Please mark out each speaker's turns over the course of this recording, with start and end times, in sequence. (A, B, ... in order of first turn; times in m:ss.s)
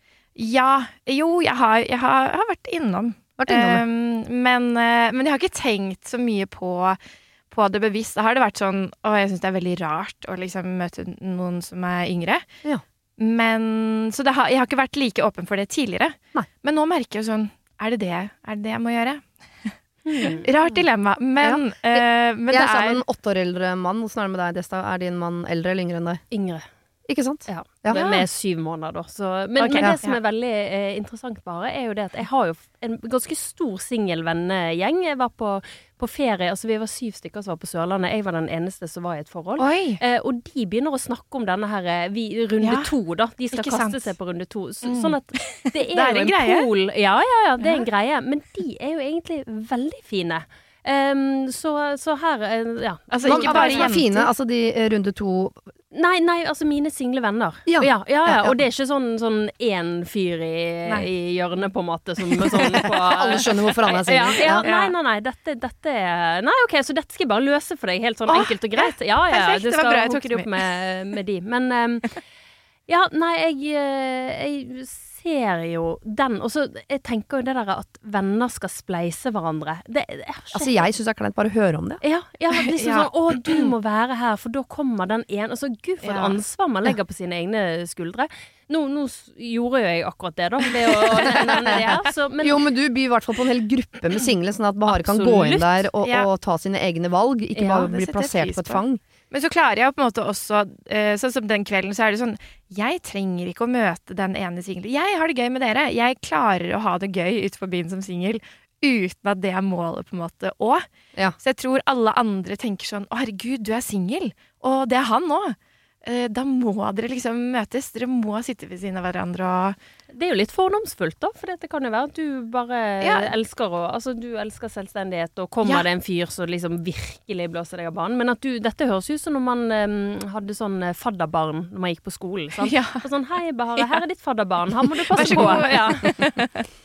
0:00.4-0:07.0 A
0:03.4-0:03.8 B
0:07.5-0:12.4 A
0:13.2-0:23.0 A
0:20.1-0:20.5 C
0:21.4-0:26.2 B
0:26.3-0:26.7 C
0:27.1-0:28.0 B
0:27.5-0:54.2 C
0:27.9-0:28.3 A
0:29.6-0:30.2 A
0:39.6-0:40.0 A
0:42.6-0:42.9 A
0:43.5-0:44.2 A
0:44.8-0:46.7 A
0:47.6-0:47.9 A
0:53.1-0:54.3 A
0:53.2-0:55.6 B
0:55.9-1:12.2 C
0:57.7-0:58.6 B
1:03.0-1:04.7 B
1:04.3-1:04.9 A
1:08.3-1:10.6 A
1:12.9-1:20.9 C
1:20.5-1:22.0 B
1:22.0-1:32.6 C
1:22.7-1:23.7 A
1:26.0-1:26.4 A
1:32.4-1:39.0 B
1:34.9-1:35.9 C
1:36.0-1:36.3 A
1:37.5-1:37.9 C
1:37.8-1:50.8 A
1:51.4-1:59.8 A
2:00.1-2:16.1 C
2:03.0-2:03.3 A
2:12.6-2:13.0 A
2:15.2-2:16.6 A
2:15.2-2:15.7 B